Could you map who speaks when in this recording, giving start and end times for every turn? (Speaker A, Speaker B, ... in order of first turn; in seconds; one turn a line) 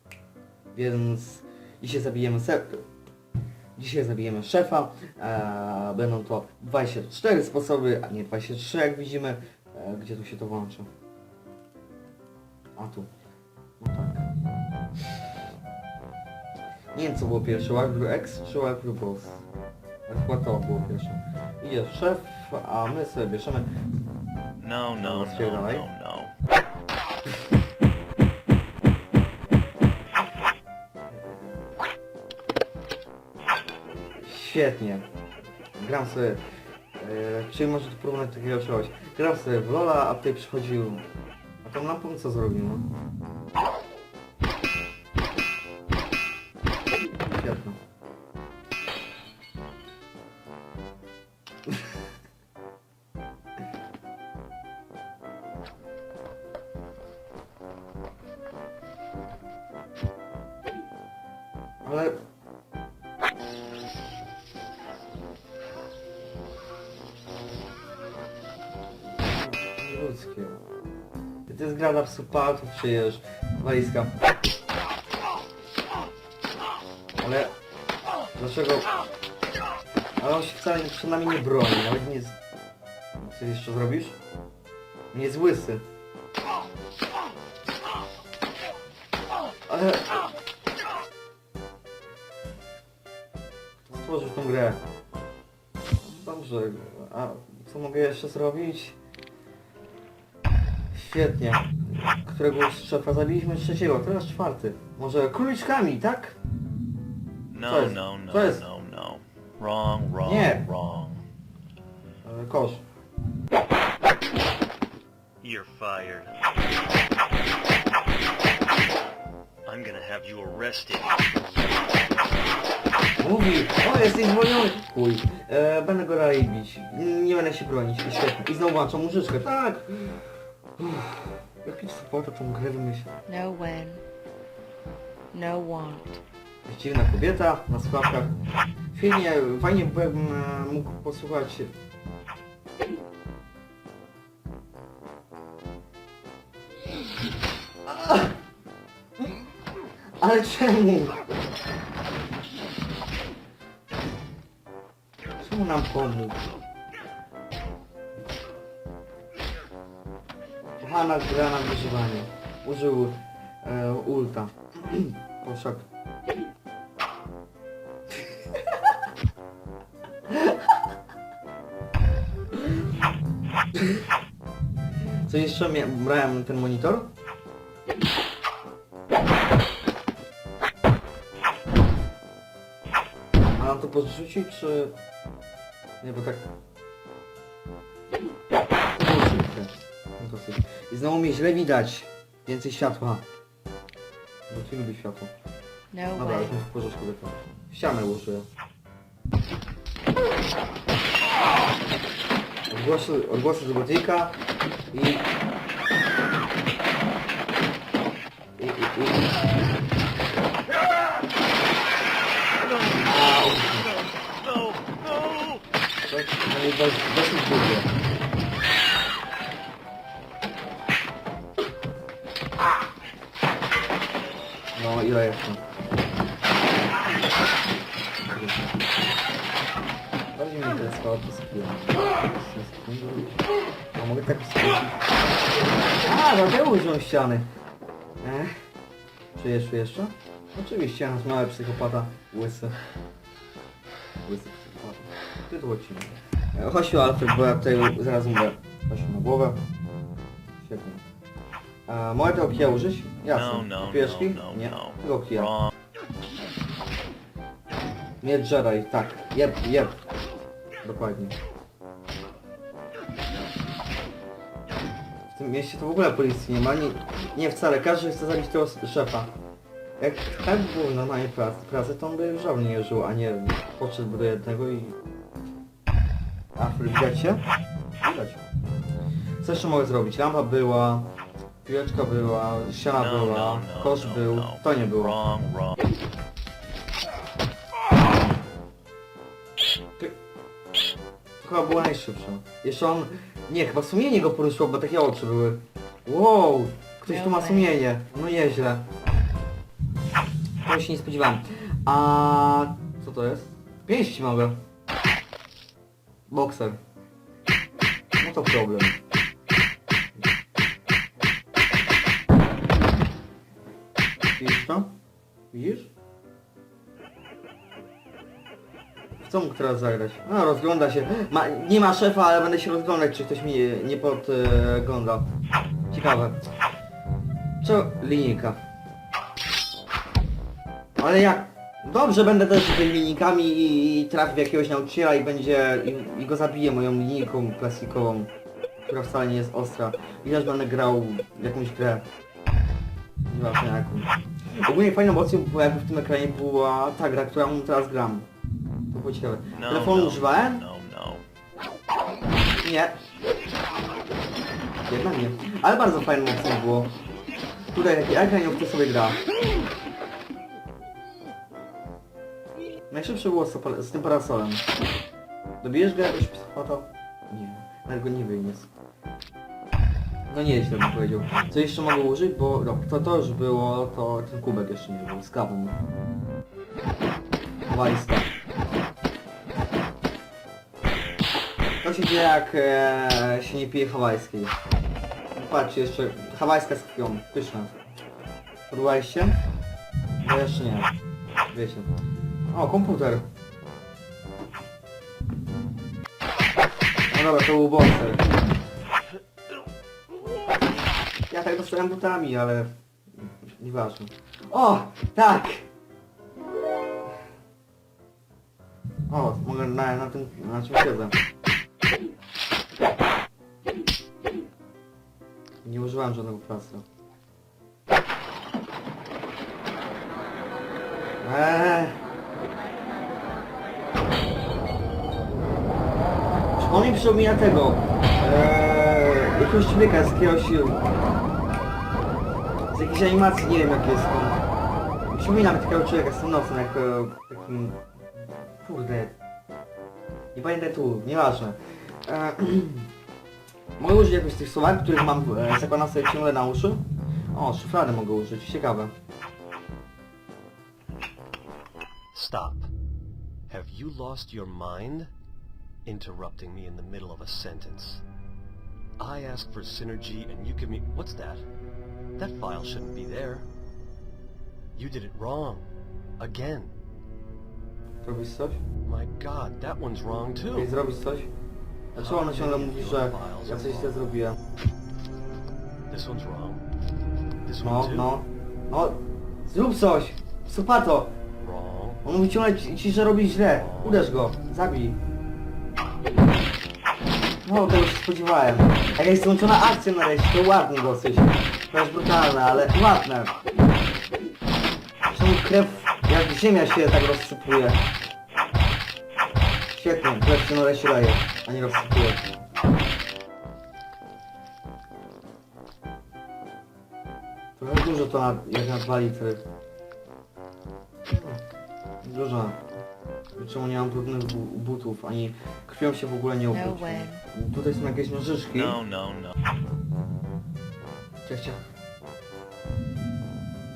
Speaker A: 0.7-2.8
Speaker A: 3.8-10.9
Speaker A: 12.8-13.1
Speaker A: 13.8-14.3
Speaker A: 16.9-19.4
Speaker A: 20.1-23.7
Speaker B: 24.6-26.3
Speaker A: 25.0-25.9
Speaker A: 31.1-31.5
Speaker A: 34.2-35.1
Speaker A: 35.8-36.4
Speaker A: 37.0-41.1
Speaker A: 41.6-42.9
Speaker A: 47.3-47.8
Speaker A: 61.8-62.2
Speaker A: 69.3-70.6
Speaker A: 71.5-74.1
Speaker A: 77.2-77.5
Speaker A: 78.4-78.9
Speaker A: 80.2-82.4
Speaker A: 83.2-84.2
Speaker A: 85.1-85.8
Speaker A: 89.7-90.2
Speaker A: 93.9-94.8
Speaker A: 96.0-99.0
Speaker A: 100.9-106.4
Speaker B: 107.5-111.2
Speaker A: 107.6-108.7
Speaker A: 110.2-110.7
Speaker A: 112.2-112.8
Speaker B: 115.4-116.4
Speaker B: 119.7-121.2
Speaker A: 123.2-133.1
Speaker C: 133.3-134.0
Speaker C: 135.3-136.2
Speaker A: 136.7-138.3
Speaker A: 138.9-141.7
Speaker A: 147.9-148.4
Speaker A: 150.2-151.2
Speaker A: 155.4-156.4
Speaker A: 160.8-165.9
Speaker A: 170.3-170.7
Speaker A: 173.8-174.0
Speaker A: 175.2-177.1
Speaker A: 183.6-185.0
Speaker A: 186.0-186.5
Speaker A: 188.9-193.2
Speaker A: 194.5-195.3
Speaker C: 195.9-196.5
Speaker A: 196.2-198.5
Speaker A: 202.7-204.4
Speaker A: 204.9-205.3
Speaker A: 208.6-209.3
Speaker A: 213.0-213.9
Speaker B: 214.4-215.6
Speaker A: 216.1-217.9
Speaker A: 224.8-225.6
Speaker A: 228.2-229.1
Speaker A: 230.3-233.4
Speaker A: 233.9-235.0
Speaker A: 236.0-237.5
Speaker A: 238.2-238.5
Speaker A: 239.3-242.8
Speaker A: 244.2-249.6
Speaker A: 250.6-251.0
Speaker A: 251.9-255.6
Speaker B: 253.3-255.7
Speaker A: 258.2-260.0
Speaker A: 260.8-261.4
Speaker A: 265.3-269.3
Speaker A: 270.0-275.0
Speaker A: 276.6-277.4
Speaker A: 278.0-278.4
Speaker A: 279.4-281.1
Speaker A: 281.6-285.2
Speaker B: 282.9-285.8
Speaker A: 291.4-298.9
Speaker C: 297.1-297.7
Speaker A: 300.6-304.6
Speaker A: 306.3-306.8
Speaker A: 308.2-309.0
Speaker A: 314.4-314.9
Speaker A: 315.5-315.9
Speaker A: 319.2-325.3
Speaker A: 325.9-326.4
Speaker A: 327.6-328.6
Speaker A: 331.0-338.3
Speaker A: 338.8-342.1
Speaker A: 343.3-348.3
Speaker A: 348.9-350.6
Speaker B: 349.6-351.3
Speaker A: 352.6-353.0
Speaker A: 354.9-356.9
Speaker A: 357.7-359.2
Speaker A: 362.9-364.6
Speaker A: 365.6-368.7
Speaker A: 370.3-375.8
Speaker A: 377.7-378.3
Speaker A: 381.8-384.6
Speaker A: 385.4-387.7
Speaker A: 388.7-389.4
Speaker A: 390.2-390.9
Speaker A: 391.5-391.9
Speaker A: 392.5-393.3
Speaker A: 397.1-398.2
Speaker A: 401.3-405.7
Speaker A: 409.1-411.2
Speaker A: 415.6-416.9
Speaker A: 421.2-422.0
Speaker A: 426.5-430.8
Speaker A: 432.7-434.4
Speaker A: 435.1-437.8
Speaker A: 438.6-439.1
Speaker A: 440.4-442.9
Speaker A: 443.8-448.9
Speaker D: 452.1-452.7
Speaker D: 453.5-455.1
Speaker D: 455.9-458.0
Speaker D: 459.0-461.4
Speaker D: 462.2-463.5
Speaker D: 464.8-466.8
Speaker A: 468.1-468.6
Speaker D: 468.9-470.7
Speaker A: 470.6-471.3
Speaker A: 471.9-474.4
Speaker D: 472.0-474.0
Speaker D: 475.9-476.7
Speaker D: 477.4-478.1
Speaker A: 477.6-481.1
Speaker D: 481.4-482.0
Speaker A: 482.0-485.0
Speaker D: 483.5-484.1
Speaker A: 487.4-493.4
Speaker A: 495.1-497.8
Speaker A: 499.7-502.3
Speaker A: 507.6-509.4
Speaker A: 511.1-511.4
Speaker A: 512.0-512.6
Speaker A: 513.4-518.8
Speaker C: 516.6-517.2
Speaker B: 518.5-519.4
Speaker A: 521.3-521.6